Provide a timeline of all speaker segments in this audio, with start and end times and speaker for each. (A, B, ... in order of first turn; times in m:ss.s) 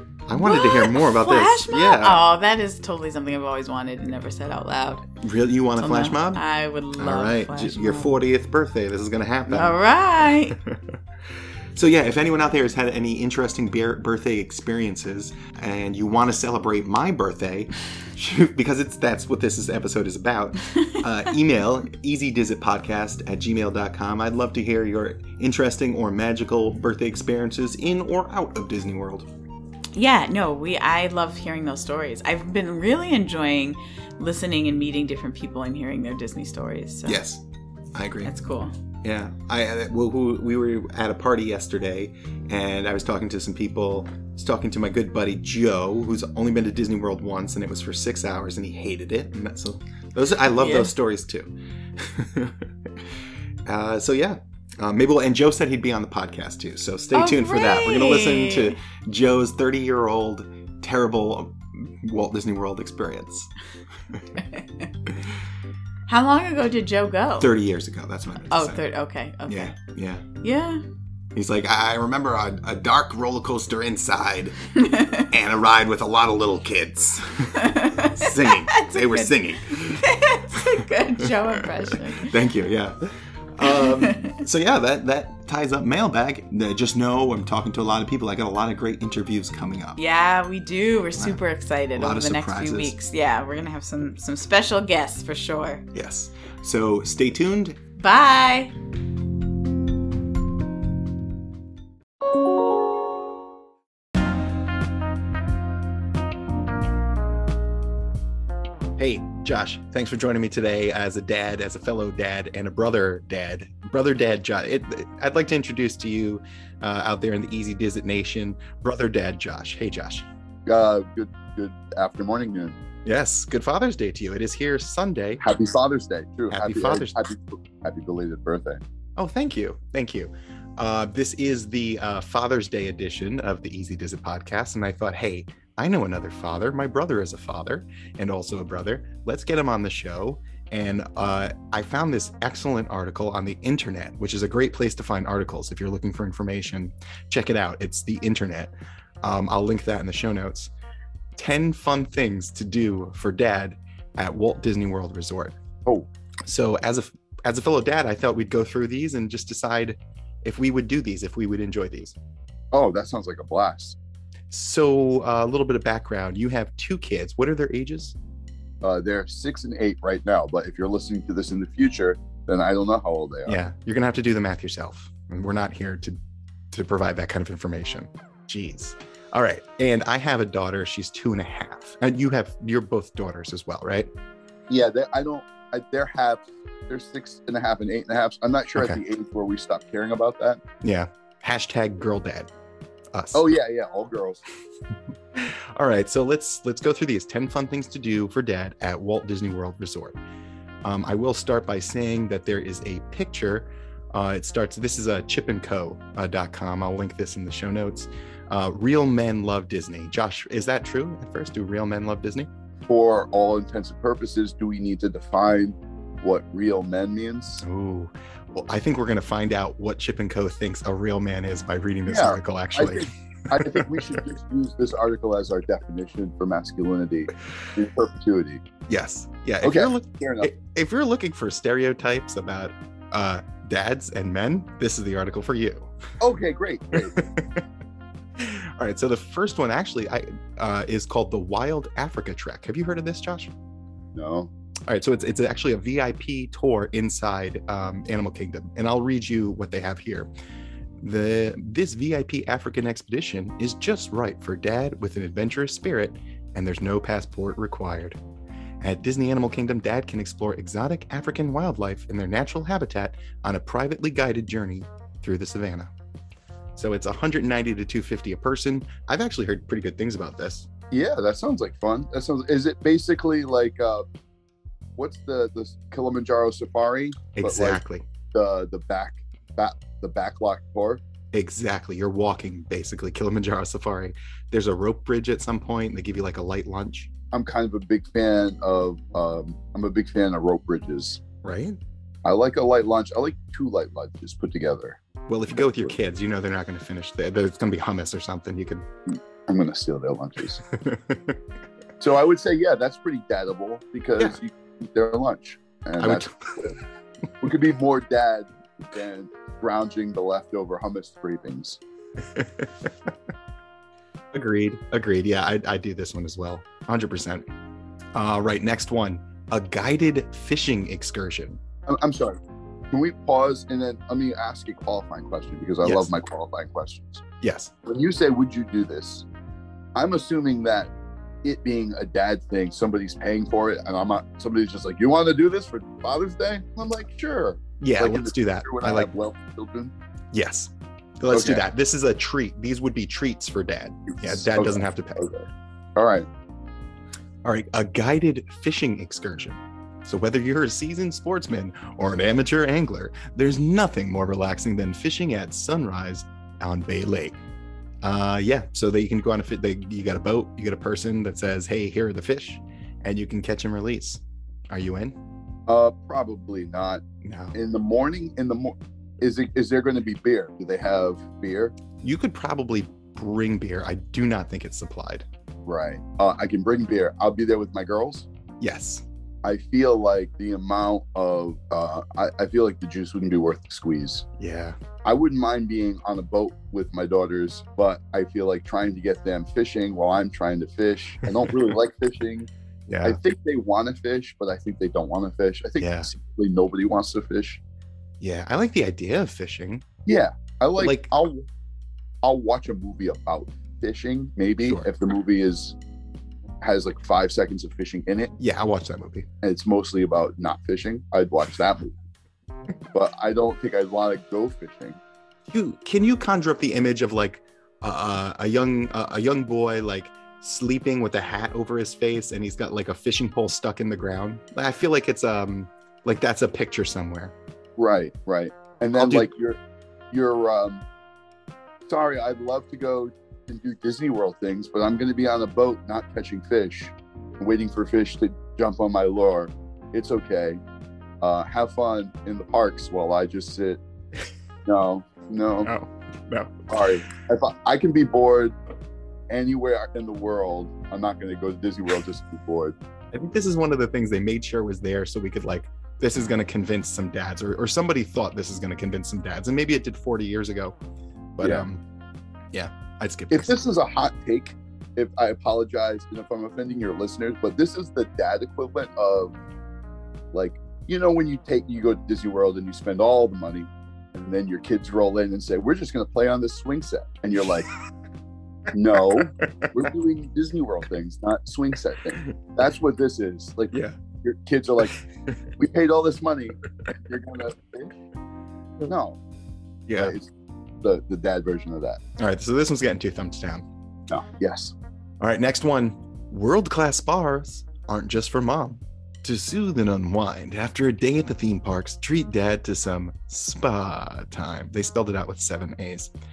0:00.3-0:02.2 A
0:00.3-0:05.0 B
0:05.2-0:06.4 A
0:05.8-0:08.1 B
0:07.0-0:11.0 A
0:09.5-0:10.6 B
0:11.7-0:29.3 A
0:29.9-0:37.2 B
0:37.0-0:37.4 A
0:37.9-0:38.3 A
0:38.2-0:38.7 B
0:39.0-0:53.0 A
0:50.6-0:50.9 B
0:53.6-1:03.5 A
0:57.1-0:58.8 B
1:04.4-1:04.9 B
1:06.1-1:07.5 B
1:07.4-1:08.8 A
1:08.5-1:09.8 B
1:09.5-1:10.3 A
1:10.4-1:10.8 B
1:11.3-1:14.6 A
1:14.8-1:15.2 B
1:15.2-1:20.0 A
1:17.6-1:22.3 B
1:20.8-1:21.2 A
1:22.1-1:30.0 A
1:23.6-1:24.4 B
1:30.0-1:35.8 B
1:31.9-1:33.0 A
1:35.9-1:37.8 A
1:38.0-1:38.7 B
1:49.0-2:00.3 A
2:00.6-2:02.8 C
2:03.0-2:05.5 A
2:05.4-2:08.8 C
2:06.5-2:07.3 A
2:09.2-2:30.7 A
2:31.4-2:35.6 A
2:36.4-2:42.2 A
2:42.7-2:44.0 C
2:44.5-2:48.2 A
2:48.8-2:53.6 C
2:53.4-2:56.2 A
2:56.7-3:04.1 A
3:04.7-3:10.6 C
3:10.8-3:12.5 A
3:13.1-3:13.5 A
3:13.3-3:14.4 C
3:15.3-3:20.2 A
3:20.8-3:32.5 A
3:32.8-3:37.6 C
3:37.6-3:44.1 A
3:42.1-3:48.6 C
3:48.9-3:55.9 A
3:49.6-3:50.5 C
3:56.2-3:57.1 C
3:57.1-3:57.6 A
3:58.4-4:03.5 A
4:04.1-4:04.5 C
4:04.9-4:10.3 A
4:11.0-4:18.2 A
4:18.8-4:25.9 A
4:26.8-4:30.7 A
4:30.9-4:34.0 C
4:35.0-4:37.8 C
4:37.3-4:38.0 A
4:38.3-4:41.0 C
4:41.3-4:47.1 A
4:47.3-4:51.2 C
4:51.4-4:51.8 A
4:52.2-4:55.0 C
4:55.3-4:58.8 A
4:55.6-4:55.9 C
4:59.1-5:00.6 C
5:00.7-5:01.4 A
5:02.0-5:06.8 C
5:06.0-5:06.6 A
5:07.4-5:11.8 C
5:12.2-5:13.1 A
5:14.3-5:17.4 A
5:18.1-5:21.6 A
5:21.9-5:22.4 C
5:22.9-5:27.2 C
5:25.8-5:26.1 A
5:27.4-5:27.7 A
5:27.8-5:29.2 C
5:29.9-5:30.9 C
5:31.4-5:39.9 C
5:37.8-5:39.1 A
5:40.3-5:45.3 A
5:41.3-5:41.6 C
5:44.2-5:46.3 C
5:47.4-5:57.4 A
5:58.0-6:05.2 A
6:05.7-6:07.0 C
6:07.2-6:07.6 A
6:07.5-6:11.7 C
6:12.0-6:15.2 A
6:15.6-6:18.3 C
6:18.6-6:19.0 A
6:19.4-6:24.2 C
6:24.4-6:24.8 A
6:25.0-6:32.5 C
6:32.9-6:33.2 A
6:33.0-6:37.6 C
6:35.8-6:36.1 A
6:38.2-6:39.8 A
6:40.0-6:41.5 C
6:40.8-6:41.1 A
6:42.2-6:45.8 C
6:44.6-6:44.9 A
6:46.6-6:48.3 C
6:48.4-6:49.3 A
6:49.4-6:51.9 C
6:52.9-6:55.0 C
6:55.5-7:07.3 A
7:07.8-7:09.6 C
7:08.9-7:09.3 A
7:10.1-7:10.8 C
7:11.8-7:20.6 C
7:21.2-7:23.8 C
7:24.6-7:25.7 C
7:25.6-7:26.9 A
7:26.7-7:28.6 C
7:29.3-7:32.8 C
7:33.1-7:40.8 A
7:41.4-7:41.8 A
7:42.5-7:43.6 A
7:43.3-7:49.3 C
7:50.3-7:57.7 C
7:58.7-8:05.0 C
7:58.9-7:59.9 A
8:03.7-8:04.0 A
8:04.8-8:05.4 A
8:05.6-8:07.9 C
8:08.8-8:09.2 C
8:09.9-8:10.1 A
8:10.0-8:10.3 C
8:10.8-8:12.0 C
8:12.2-8:13.6 A
8:14.1-8:14.7 C
8:15.2-8:26.1 A